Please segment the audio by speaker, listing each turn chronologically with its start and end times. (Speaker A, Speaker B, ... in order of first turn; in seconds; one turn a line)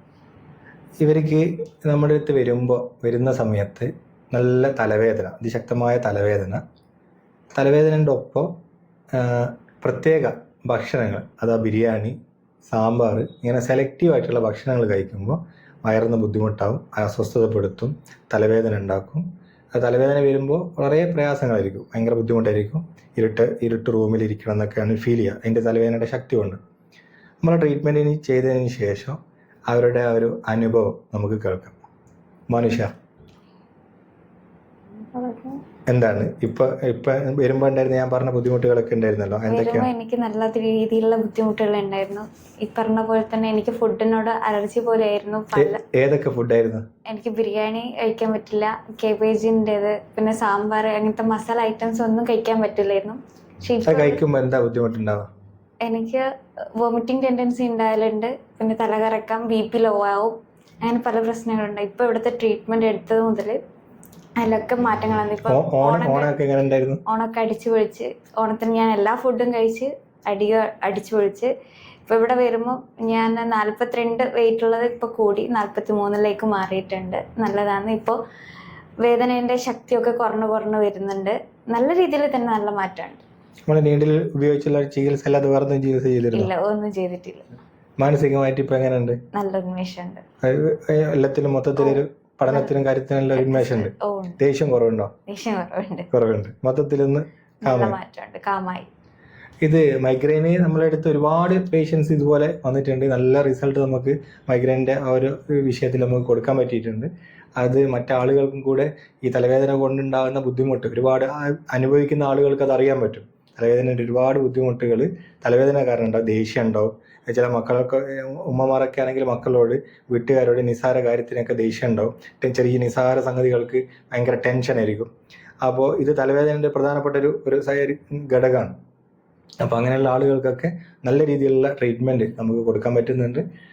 Speaker A: 1.0-6.6
Speaker A: 7.5-8.5
Speaker A: 9.1-26.6
Speaker A: 27.4-31.8
Speaker A: 32.5-32.9
Speaker B: 35.1-35.6
Speaker A: 35.9-39.9
Speaker B: 39.5-45.8
Speaker A: 45.6-46.9
Speaker B: 47.1-54.2
Speaker A: 53.9-55.3
Speaker B: 55.8-56.2
Speaker B: 56.8-63.6
Speaker B: 64.4-66.3
Speaker A: 65.5-67.0
Speaker B: 67.1-71.5
Speaker B: 72.1-78.2
Speaker B: 79.0-83.2
Speaker A: 83.7-86.5
Speaker B: 86.3-87.5
Speaker A: 88.0-89.2
Speaker B: 89.3-90.2
Speaker A: 90.4-95.1
Speaker B: 91.8-94.4
Speaker B: 95.3-96.1
Speaker A: 96.1-98.0
Speaker B: 97.6-98.9
Speaker A: 99.6-125.1
Speaker A: 125.6-128.8
Speaker A: 129.6-133.4